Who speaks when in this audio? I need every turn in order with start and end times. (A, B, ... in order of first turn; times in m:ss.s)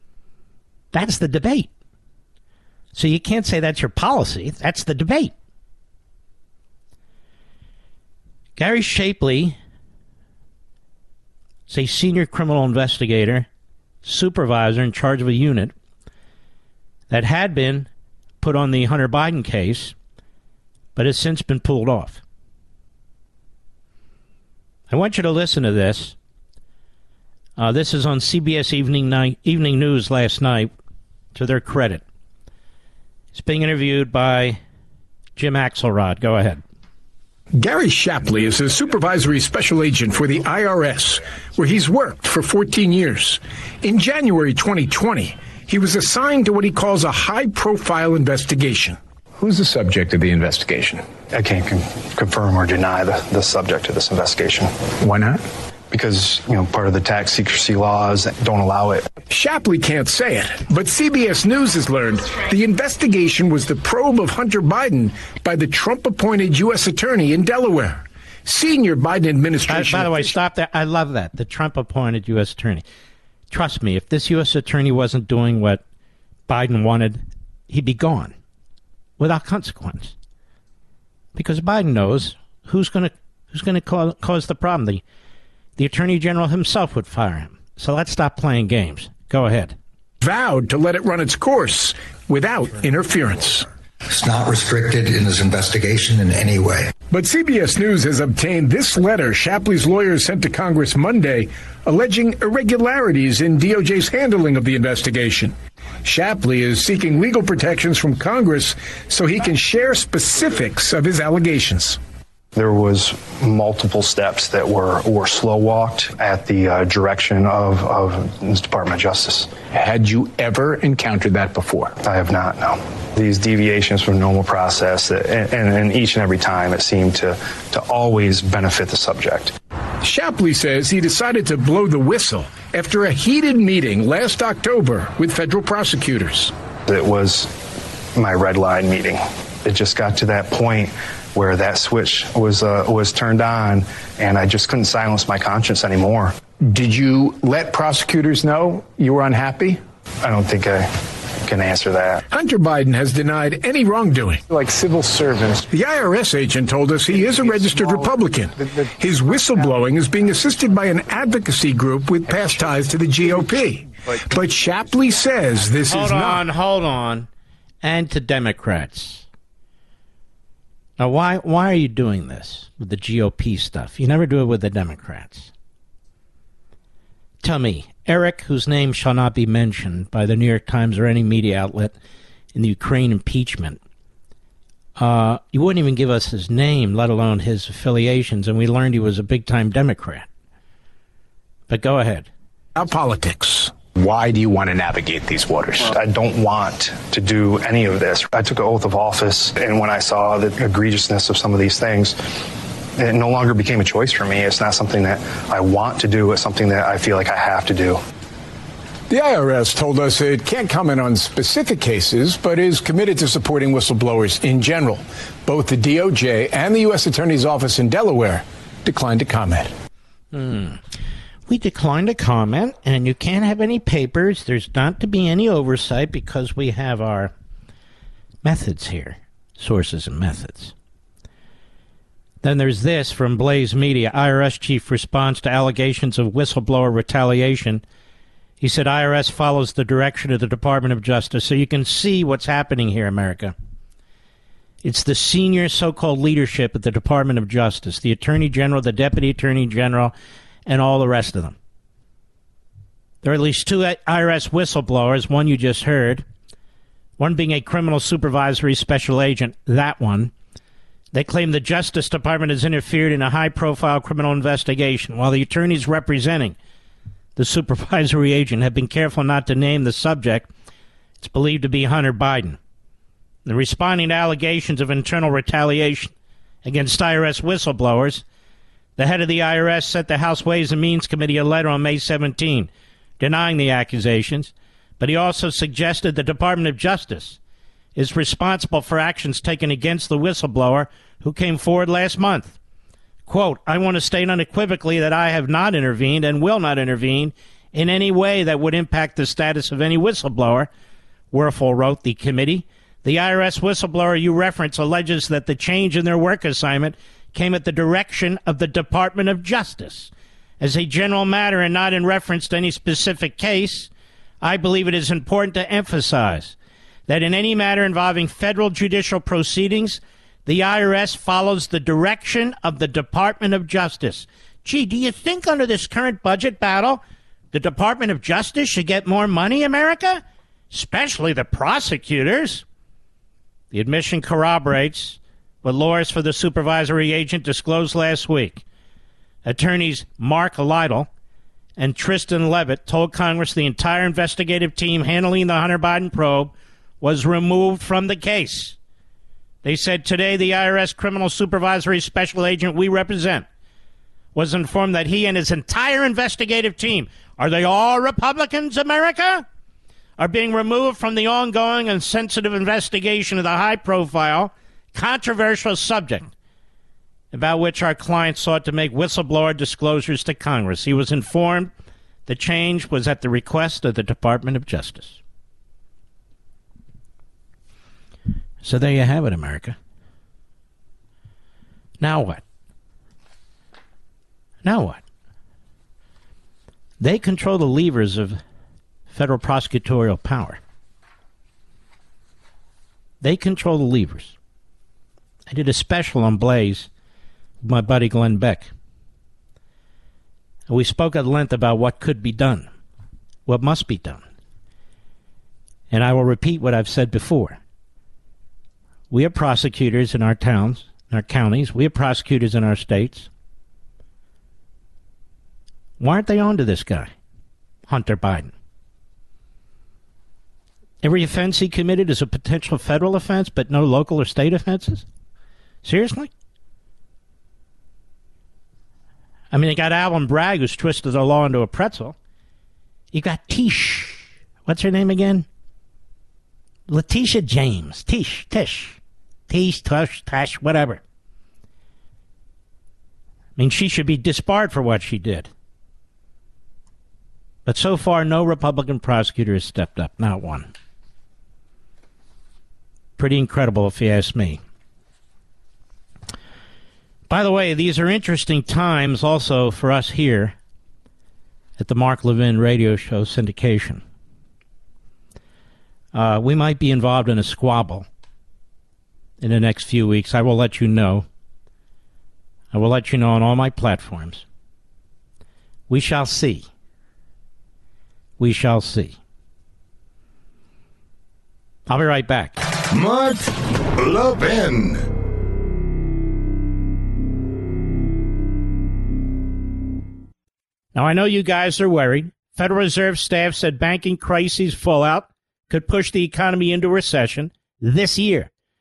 0:00.9-0:01.7 A
0:02.9-0:05.3 A
0:08.6-0:09.6 A
0:11.7-0:13.5 A
0:14.0-0:15.7 A
0:17.1-0:17.9 A
0:18.4-0:20.0 A
0:21.0-0:22.2 A
0:24.9-0:26.2 A
0:27.6-0:30.7 A
0:31.4-0:32.0 A
0:33.3-0:34.6 A
0:35.4-0:36.6 A
0:37.6-0:49.0 B
0:49.4-0:51.1 C
0:51.3-0:54.7 D
0:55.0-0:55.4 C
0:55.9-0:59.1 D
0:59.3-1:10.3 B
1:09.7-1:12.8 A
1:13.5-1:15.8 A
1:16.5-1:18.3 A
1:19.2-1:20.2 A
1:21.4-1:25.0 A
1:25.8-1:29.8 A
1:30.2-1:33.7 B
1:34.1-1:36.9 E
1:37.1-1:52.0 B
1:52.6-1:59.6 D
1:59.7-2:02.0 C
2:02.0-2:09.5 D
2:10.0-2:16.5 B
2:16.9-2:17.5 D
2:18.2-2:26.4 D
2:26.6-2:29.8 C
2:30.2-2:30.9 D
2:31.4-2:32.2 D
2:32.3-2:34.4 B
2:34.5-2:35.7 C
2:35.7-2:46.4 B
2:37.2-2:39.7 C
2:45.9-2:47.3 A
2:47.8-2:49.3 A
2:51.0-2:55.5 A
2:57.4-3:02.0 A
3:02.5-3:03.8 A
3:05.0-3:10.3 A
3:11.7-3:12.3 A
3:12.8-3:13.7 B
3:14.0-3:15.9 C
3:15.9-3:22.2 D
3:23.0-3:28.0 D
3:29.1-3:39.7 B
3:40.3-3:40.8 A
3:41.5-3:47.3 A
3:48.4-3:50.8 A
3:52.4-3:57.8 A
3:58.6-4:03.6 A
4:04.8-4:10.1 A
4:10.7-4:11.6 A
4:13.2-4:16.2 A
4:17.2-4:20.3 A
4:21.1-4:26.6 A
4:27.4-4:30.5 A
4:31.2-4:32.6 A
4:33.5-4:36.1 A
4:36.6-4:38.2 A
4:39.0-4:42.7 A
4:43.2-4:47.4 A
4:48.0-4:52.6 A
4:53.3-5:00.7 A
5:01.3-5:13.9 A
5:14.4-5:16.6 A
5:17.1-5:32.6 A
5:33.7-5:38.6 A
5:39.4-5:41.1 A
5:41.8-5:48.8 A
5:49.6-5:53.5 A
5:54.4-5:59.4 A
6:00.2-6:06.3 A
6:07.3-6:11.7 A
6:12.3-6:15.2 A
6:18.6-6:19.8 A
6:22.0-6:22.4 A
6:24.6-6:25.0 A
6:27.0-6:28.4 A
6:29.1-6:30.6 A
6:33.2-6:34.4 A
6:35.5-6:36.9 A
6:37.6-6:38.7 A
6:40.7-6:42.7 A
6:43.5-6:44.2 A
6:45.9-6:47.6 A
6:49.1-6:53.3 A
6:56.0-6:57.1 A
6:57.9-6:58.5 A
7:01.0-7:05.1 A
7:05.8-7:06.3 A
7:09.5-7:12.2 A
7:13.1-7:15.5 A
7:16.9-7:21.0 A
7:23.6-7:25.5 A
7:27.7-7:30.7 A
7:33.2-7:34.6 A
7:37.3-7:40.6 A
7:41.8-7:44.0 A
7:46.1-7:48.1 A
7:49.4-7:51.3 A
7:52.7-7:54.4 A
7:55.9-7:56.7 A
7:58.4-7:59.2 A
8:01.9-8:02.6 A
8:02.9-8:05.1 F
8:11.0-8:18.5 A